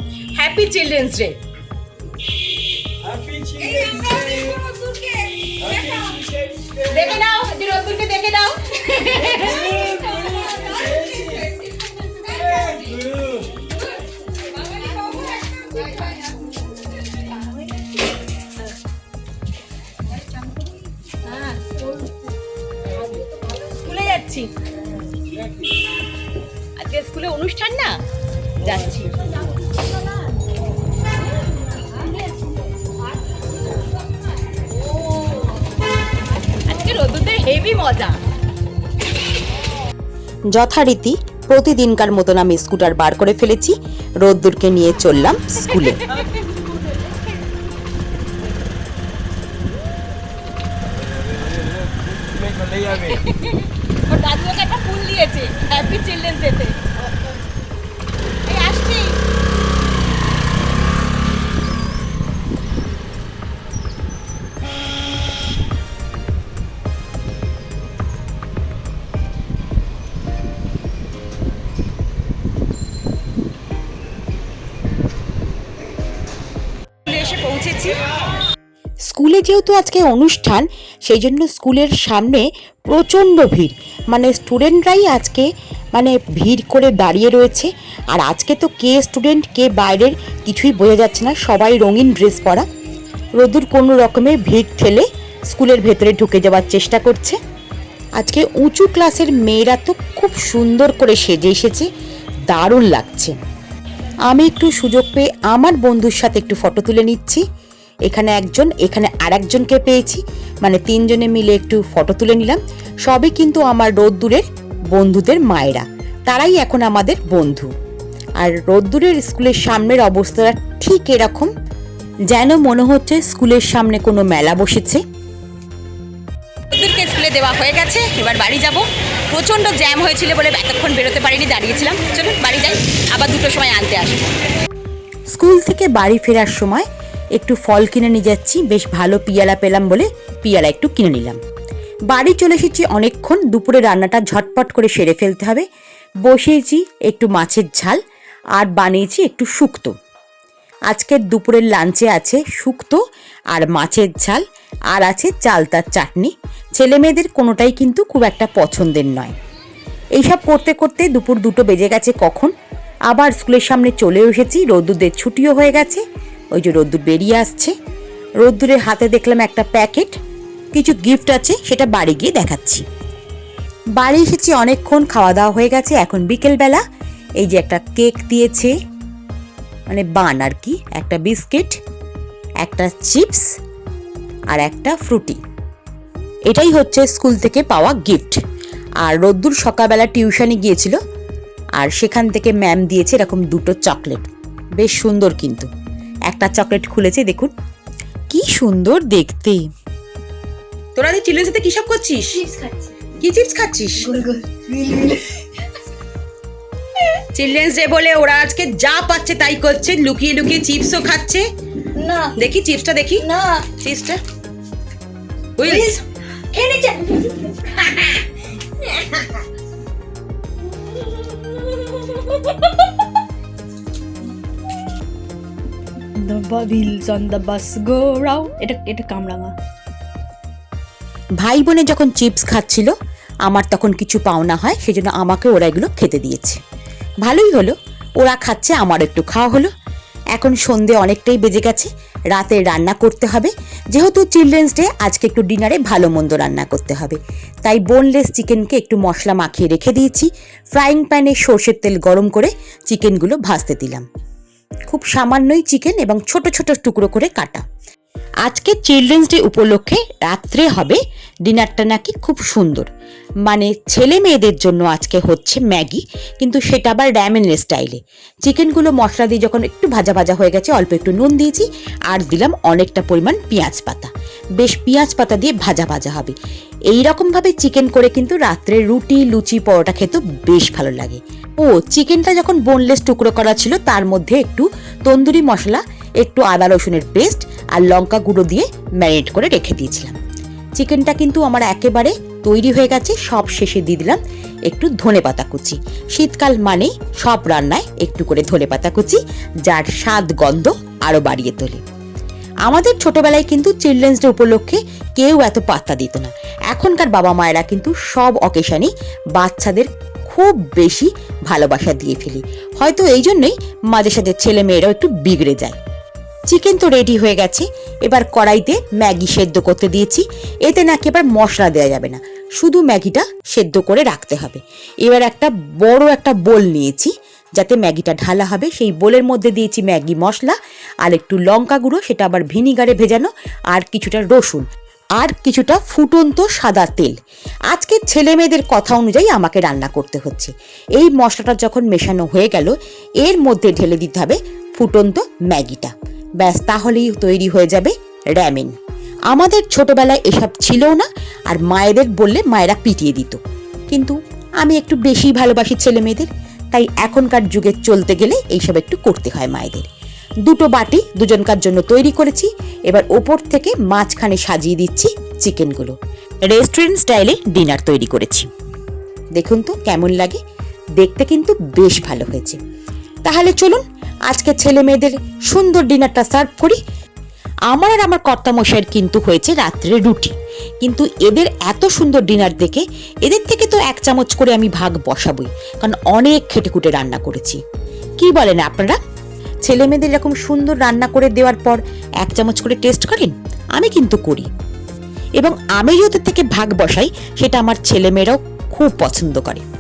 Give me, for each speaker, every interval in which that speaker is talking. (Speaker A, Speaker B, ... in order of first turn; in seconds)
Speaker A: 0.3-1.4, 6.9-9.7, 24.0-24.3, 26.8-27.9, 36.7-38.2, 40.5-46.2, 54.1-56.7, 77.2-77.8, 79.1-92.7, 93.4-97.4, 98.2-101.9, 102.5-103.4, 104.3-107.4, 108.1-117.7, 118.4-121.5, 122.3-125.0, 126.7-128.8, 135.3-141.4, 142.1-145.7, 146.2-148.0, 148.6-149.9, 150.9-153.0, 153.5-154.4, 154.9-159.3, 160.2-162.5, 163.1-166.0, 166.6-167.7, 168.4-170.1, 170.8-172.8, 174.0-176.8, 177.4-178.7, 179.9-181.8, 182.6-183.5, 184.5-185.4, 186.5-188.4, 189.0-191.0, 191.8-195.7, 196.3-197.5, 198.3-199.6, 201.0-202.3, 203.2-204.2, 207.3-211.4, 212.4-214.2, 215.6-216.0, 231.4-232.9, 233.5-236.6, 237.2-239.7, 240.3-254.1, 254.9-257.6, 258.4-262.9, 263.5-276.4, 276.9-290.2, 290.8-301.8, 302.7-315.8, 316.5-334.6, 335.2-337.1, 337.7-348.7, 349.3-353.4, 353.9-359.9, 360.5-368.5, 369.4-370.4, 371.0-372.6, 373.2-376.8, 377.7-387.6, 388.2-389.0, 389.6-394.5, 395.4-399.6
Speaker B: 3.2-3.7, 12.3-13.1, 23.3-23.8, 31.9-32.5, 33.3-34.0, 52.4-53.0, 202.3-202.8, 204.0-204.4, 212.0-212.4, 213.2-213.7, 215.6-216.0, 216.5-217.2
Speaker C: 3.6-6.2, 6.9-7.3, 8.8-10.4, 21.4-21.6, 23.8-24.5, 28.6-29.1, 52.9-56.8, 58.5-59.2, 77.1-78.0, 126.8-134.3
Speaker D: 204.5-205.3, 226.2-229.5